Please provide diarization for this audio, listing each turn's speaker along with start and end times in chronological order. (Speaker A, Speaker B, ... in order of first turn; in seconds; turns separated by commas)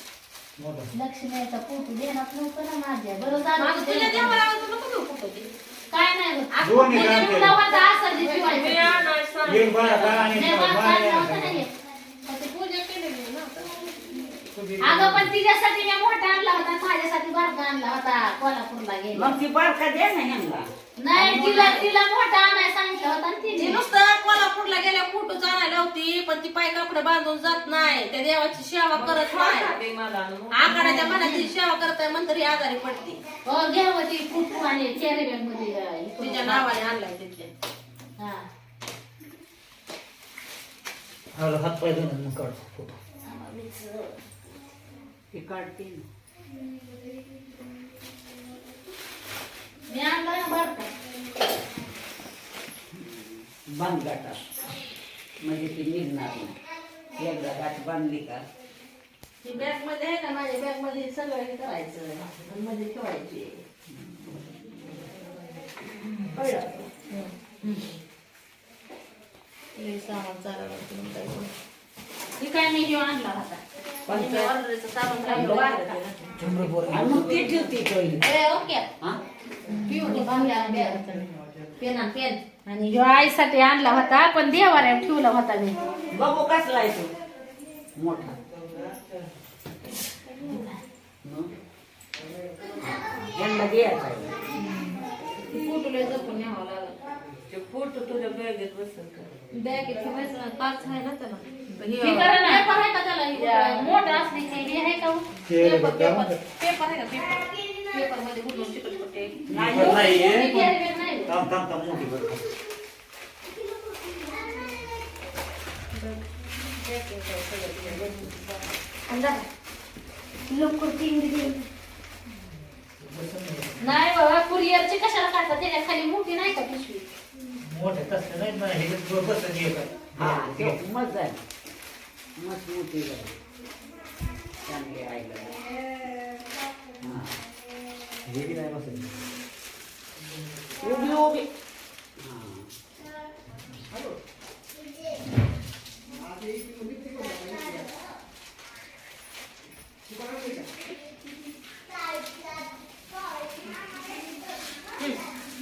Speaker A: 0.6-0.9, Speaker B: 0.9-4.4, Speaker C: 3.6-5.5, Speaker B: 5.9-9.0, Speaker A: 6.6-7.6, Speaker C: 7.7-9.0, Speaker D: 8.4-10.5, Speaker A: 9.4-11.6, Speaker B: 10.3-11.7, Speaker C: 12.3-14.0, Speaker A: 14.5-15.3, Speaker B: 14.8-19.3, Speaker E: 19.1-20.7, Speaker B: 21.0-23.8, Speaker A: 21.1-21.8, Speaker C: 21.3-21.9, Speaker C: 23.5-29.8, Speaker D: 28.9-31.4, Speaker C: 30.5-33.2, Speaker B: 30.7-31.4, Speaker B: 33.5-36.7, Speaker C: 36.2-37.5, Speaker B: 38.2-38.4, Speaker A: 41.4-43.0, Speaker B: 43.2-44.1, Speaker E: 45.3-46.1, Speaker B: 49.9-50.9, Speaker E: 52.9-54.4, Speaker E: 55.4-56.5, Speaker E: 57.2-58.4, Speaker C: 59.4-63.6, Speaker E: 63.9-64.3, Speaker E: 66.3-66.8, Speaker C: 67.1-67.7, Speaker D: 69.8-70.1, Speaker C: 69.9-71.5, Speaker D: 70.6-71.3, Speaker B: 72.4-73.6, Speaker C: 74.1-76.1, Speaker E: 74.1-74.5, Speaker B: 75.2-76.0, Speaker D: 75.3-77.7, Speaker A: 76.4-77.4, Speaker E: 76.9-78.3, Speaker C: 78.2-78.9, Speaker B: 79.7-81.3, Speaker C: 79.7-81.2, Speaker C: 81.8-82.4, Speaker B: 82.6-85.8, Speaker E: 86.1-87.1, Speaker E: 88.0-88.4, Speaker E: 91.2-91.5, Speaker E: 92.8-94.4, Speaker C: 95.5-97.0, Speaker D: 97.5-99.3, Speaker C: 99.5-104.1, Speaker D: 101.7-102.4, Speaker B: 102.0-105.2, Speaker A: 105.5-106.4, Speaker C: 105.6-110.0, Speaker A: 109.5-110.8, Speaker E: 109.5-110.2, Speaker B: 109.7-111.4, Speaker A: 111.2-112.4, Speaker C: 116.7-119.2, Speaker B: 120.5-121.6, Speaker A: 123.0-123.8, Speaker B: 123.8-127.1, Speaker A: 127.6-130.8, Speaker E: 130.2-131.4, Speaker E: 132.4-133.4, Speaker E: 134.7-135.6, Speaker E: 137.0-137.4, Speaker A: 138.2-139.2, Speaker E: 140.8-141.5, Speaker E: 142.2-142.7